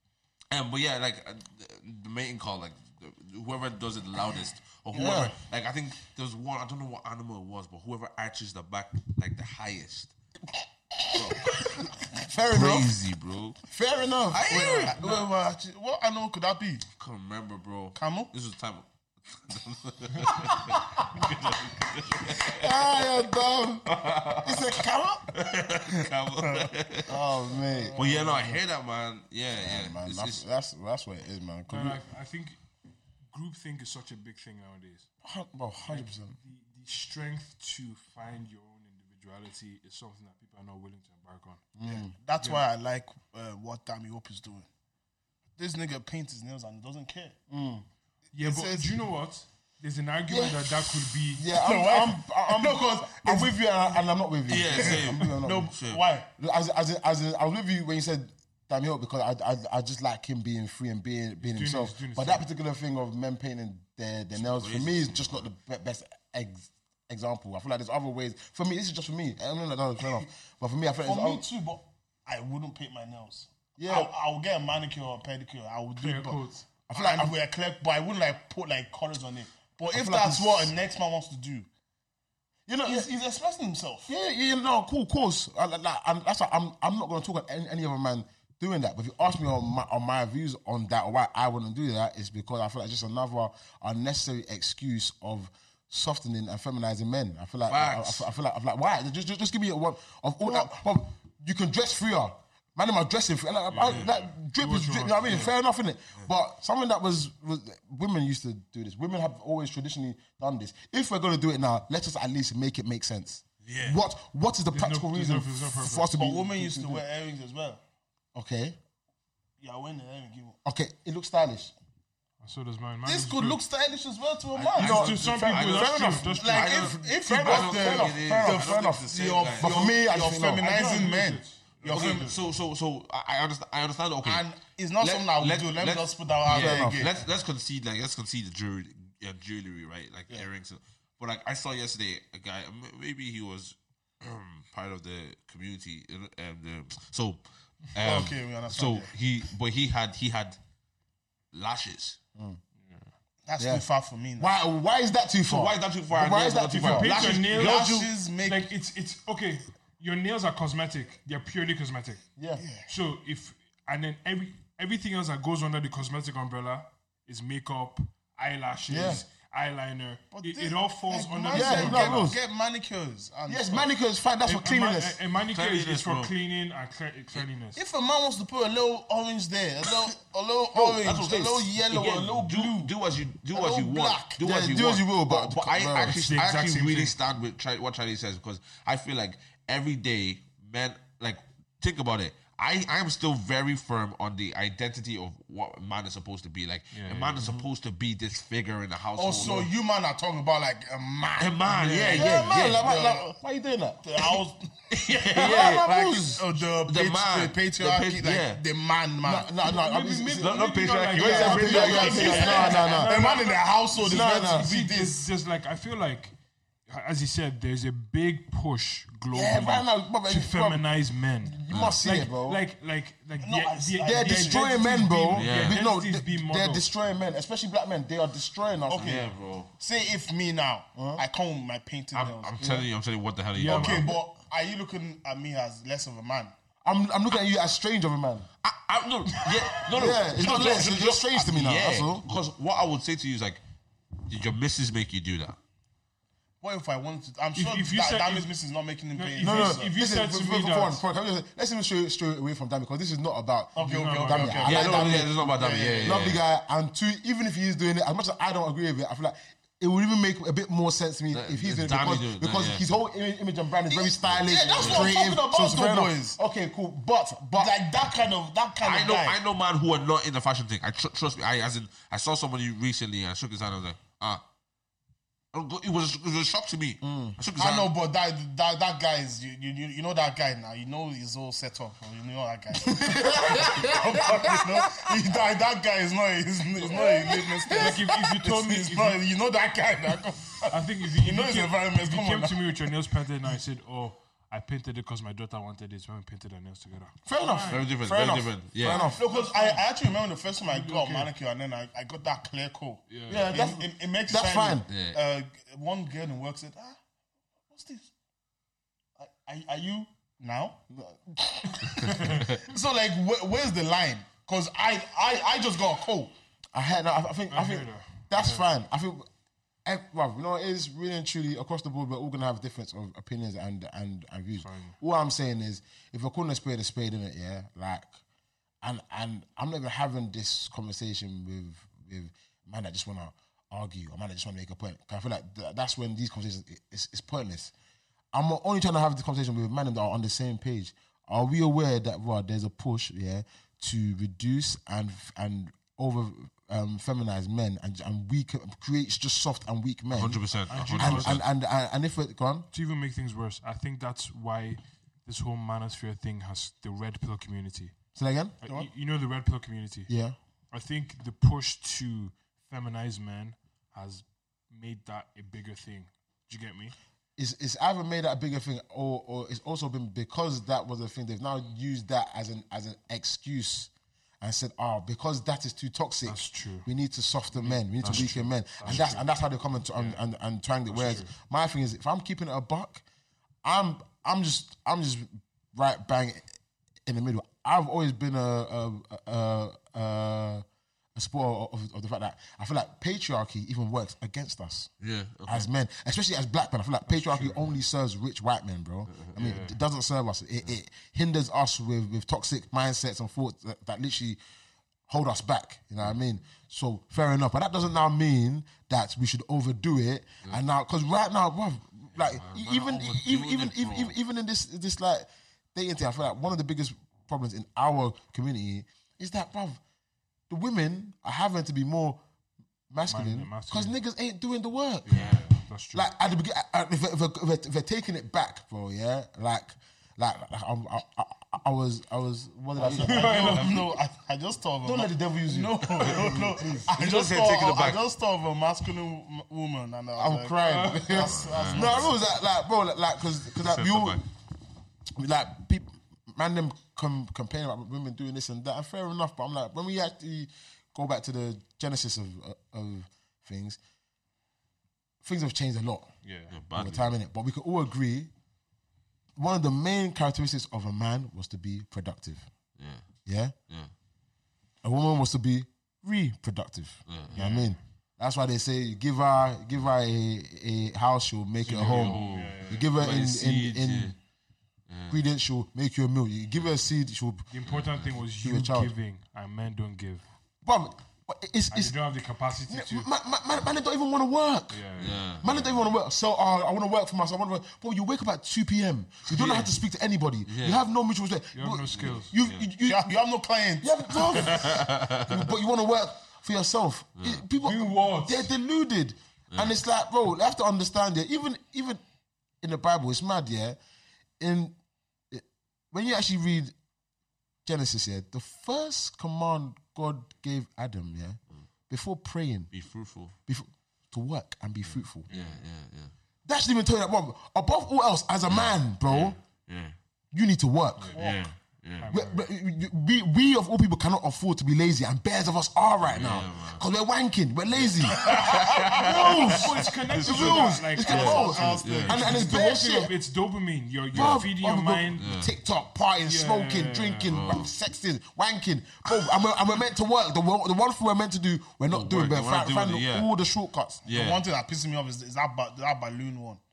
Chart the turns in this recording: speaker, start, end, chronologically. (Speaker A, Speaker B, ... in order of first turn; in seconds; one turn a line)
Speaker A: 0.5-10.1
Speaker B: 4.9-5.3
Speaker A: 11.1-13.6
Speaker B: 12.1-12.9
Speaker B: 13.6-14.8
Speaker A: 14.3-15.3
Speaker C: 14.4-16.8
Speaker A: 16.9-23.0
Speaker C: 17.9-18.3
Speaker B: 22.4-25.3
Speaker A: 23.8-27.2
Speaker C: 26.4-26.7
Speaker B: 27.1-28.0
Speaker C: 27.5-28.6
Speaker A: 27.9-30.4
Speaker B: 29.5-32.0
Speaker D: 31.7-32.6
Speaker D: 33.3-35.1
Speaker B: 35.2-36.3
Speaker D: 35.8-41.6
Speaker B: 41.8-42.1
Speaker C: 41.8-44.7
Speaker C: 45.6-47.4
Speaker B: 47.5-47.8
Speaker D: 48.3-51.5
Speaker C: 48.4-48.8
Speaker B: 50.3-55.7
Speaker C: 51.5-53.6
Speaker A: 54.5-56.0
Speaker C: 54.7-56.3
Speaker B: 56.3-71.4
Speaker D: 61.4-62.4
Speaker A: 64.4-65.5
Speaker C: 71.0-81.7
Speaker B: 73.8-74.1
Speaker D: 76.0-76.6
Speaker B: 76.9-77.3
Speaker B: 79.9-80.7
Speaker B: 82.7-83.1
Speaker C: 82.8-84.1
Speaker B: 84.1-117.0
Speaker A: 97.7-98.2
Speaker D: 103.7-105.5
Speaker A: 113.6-114.0
Speaker D: 114.7-116.1
Speaker C: 116.1-117.8
Speaker B: 118.3-118.8
Speaker C: 119.6-120.6
Speaker B: 120.6-121.7
Speaker D: 122.4-123.6
Speaker C: 123.0-125.1
Speaker A: 124.5-129.9
Speaker B: 124.8-129.0
Speaker D: 124.8-126.9
Speaker C: 126.4-132.4
Speaker B: 129.6-130.6
Speaker D: 130.6-132.4
Speaker A: 131.9-134.5
Speaker C: 134.2-137.1
Speaker A: 135.0-150.6
Speaker B: 136.5-137.1
Speaker C: 148.0-149.1
Speaker A: 151.5-152.2
Speaker D: 152.8-153.1
Speaker C: 153.4-154.5
Speaker B: 153.6-153.8
Speaker B: 154.4-157.4
Speaker A: 155.5-158.1
Speaker D: 156.8-157.9
Speaker C: 157.2-158.7
Speaker D: 158.4-162.2
Speaker B: 162.4-162.6
Speaker C: 162.6-162.9
Speaker D: 162.8-172.3
Speaker B: 168.9-169.2
Speaker C: 170.3-173.9
Speaker B: 171.5-172.4
Speaker B: 173.5-175.2
Speaker D: 174.4-177.8
Speaker A: 175.5-176.3
Speaker C: 177.7-182.9
Speaker A: 180.7-199.7
Speaker C: 183.5-184.4
Speaker B: 184.4-186.2
Speaker D: 186.1-187.1
Speaker D: 196.9-197.7
Speaker C: 199.2-203.2
Speaker A: 201.4-202.9
Speaker B: 202.1-204.4
Speaker C: 204.0-204.7
Speaker A: 204.9-208.6
Speaker B: 205.3-206.4
Speaker C: 205.3-209.5
Speaker B: 209.2-210.6
Speaker D: 209.6-216.3
Speaker A: 210.4-212.6
Speaker B: 211.2-213.4
Speaker C: 211.2-215.2
Speaker B: 214.0-214.7
Speaker D: 216.9-226.9
Speaker B: 219.3-220.9
Speaker B: 221.4-222.6
Speaker A: 221.7-222.0
Speaker C: 223.4-224.9
Speaker B: 224.0-229.2
Speaker A: 225.3-225.8
Speaker C: 228.9-229.2
Speaker A: 229.0-229.7
Speaker C: 229.8-232.5
Speaker B: 230.9-231.2
Speaker A: 232.1-234.1
Speaker B: 232.6-232.9
Speaker D: 233.5-234.2
Speaker C: 233.7-236.5
Speaker B: 236.8-238.5
Speaker A: 238.6-243.6
Speaker C: 239.5-240.8
Speaker B: 239.9-242.2
Speaker A: 244.3-245.6
Speaker C: 246.6-249.9
Speaker D: 247.5-248.5
Speaker D: 249.1-251.0
Speaker B: 249.4-255.3
Speaker C: 253.7-256.3
Speaker D: 253.8-254.7
Speaker A: 254.6-256.4
Speaker B: 256.0-267.7
Speaker A: 261.3-262.9
Speaker C: 263.9-266.4
Speaker A: 264.3-265.2
Speaker C: 267.6-269.4
Speaker A: 268.8-274.4
Speaker A: 275.5-277.9
Speaker B: 277.0-277.4
Speaker C: 277.6-292.9
Speaker B: 283.0-284.4
Speaker B: 286.9-287.9
Speaker D: 287.7-289.2
Speaker D: 290.7-297.9
Speaker B: 297.2-299.2
Speaker A: 297.7-299.1
Speaker C: 298.8-307.0
Speaker D: 298.9-299.9
Speaker D: 300.6-301.3
Speaker D: 303.1-303.6
Speaker B: 303.3-304.9
Speaker A: 304.9-305.2
Speaker C: 307.7-308.1
Speaker C: 309.2-310.8
Speaker B: 310.9-311.9
Speaker C: 311.6-316.3
Speaker B: 316.7-319.3
Speaker D: 317.5-318.7
Speaker B: 319.8-328.2
Speaker D: 324.6-325.0
Speaker B: 328.8-337.7
Speaker B: 338.3-352.7
Speaker A: 350.1-351.4
Speaker D: 350.7-351.4
Speaker D: 352.7-357.9
Speaker B: 358.1-358.6
Speaker D: 358.6-360.1
Speaker B: 360.1-360.4
Speaker D: 360.7-366.9
Speaker B: 367.4-373.9
Speaker B: 374.4-383.0
Speaker D: 376.2-376.9
Speaker D: 377.5-379.2
Speaker D: 379.9-380.2
Speaker D: 380.9-381.3
Speaker B: 383.6-386.4
Speaker B: 387.1-390.6
Speaker B: 391.1-394.9
Speaker A: 395.0-395.7
Speaker B: 395.4-404.4
Speaker D: 397.1-397.6
Speaker A: 399.1-399.4
Speaker D: 399.4-399.8
Speaker B: 405.1-419.8
Speaker A: 412.1-414.1
Speaker B: 420.5-422.2
Speaker B: 422.9-425.2
Speaker D: 423.1-423.9
Speaker A: 425.1-425.4
Speaker D: 425.1-426.1
Speaker B: 425.9-433.6
Speaker A: 432.8-433.8
Speaker C: 432.9-442.1
Speaker D: 433.0-433.9
Speaker B: 434.8-436.9
Speaker A: 435.8-438.0
Speaker B: 440.1-444.2
Speaker D: 440.6-441.3
Speaker A: 441.2-442.1
Speaker A: 443.6-444.2
Speaker B: 445.1-453.8
Speaker B: 455.2-456.1
Speaker D: 456.2-456.6
Speaker A: 456.5-457.1
Speaker B: 456.7-458.3
Speaker B: 459.4-462.5
Speaker A: 462.8-463.0
Speaker B: 463.2-463.5
Speaker B: 464.8-474.1
Speaker A: 467.1-467.4
Speaker D: 467.3-467.7
Speaker D: 471.6-472.9
Speaker A: 471.6-474.1
Speaker A: 474.9-475.2
Speaker B: 475.1-477.4
Speaker D: 477.5-480.2
Speaker A: 477.6-478.1
Speaker B: 478.4-478.9
Speaker B: 480.6-481.9
Speaker D: 481.7-483.1
Speaker B: 482.7-493.1
Speaker D: 484.7-485.2
Speaker A: 485.0-485.9
Speaker A: 489.3-489.7
Speaker A: 490.4-490.8
Speaker D: 491.5-492.3
Speaker A: 491.9-492.7
Speaker C: 492.8-494.7
Speaker B: 493.8-502.0
Speaker A: 494.4-495.4
Speaker A: 497.2-497.4
Speaker D: 497.6-498.5
Speaker A: 499.5-499.8
Speaker B: 502.6-503.8
Speaker B: 504.4-504.8
Speaker B: 505.3-506.7
Speaker B: 507.6-512.7
Speaker A: 512.7-513.3
Speaker B: 513.5-515.3
Speaker A: 514.9-516.1
Speaker D: 515.3-515.6
Speaker B: 516.4-519.4
Speaker A: 518.5-520.0
Speaker B: 520.3-521.2
Speaker C: 521.1-521.4
Speaker A: 521.1-522.1
Speaker D: 522.0-522.5
Speaker B: 522.1-533.1
Speaker A: 526.0-526.8
Speaker A: 527.7-529.6
Speaker D: 528.2-535.3
Speaker C: 528.4-529.1
Speaker A: 530.1-532.5
Speaker C: 530.3-532.8
Speaker A: 534.1-534.5
Speaker B: 534.1-544.0
Speaker A: 535.1-535.5
Speaker D: 536.2-537.4
Speaker A: 537.3-537.7
Speaker A: 539.0-539.4
Speaker A: 541.9-543.3
Speaker A: 544.0-544.4
Speaker C: 544.0-546.6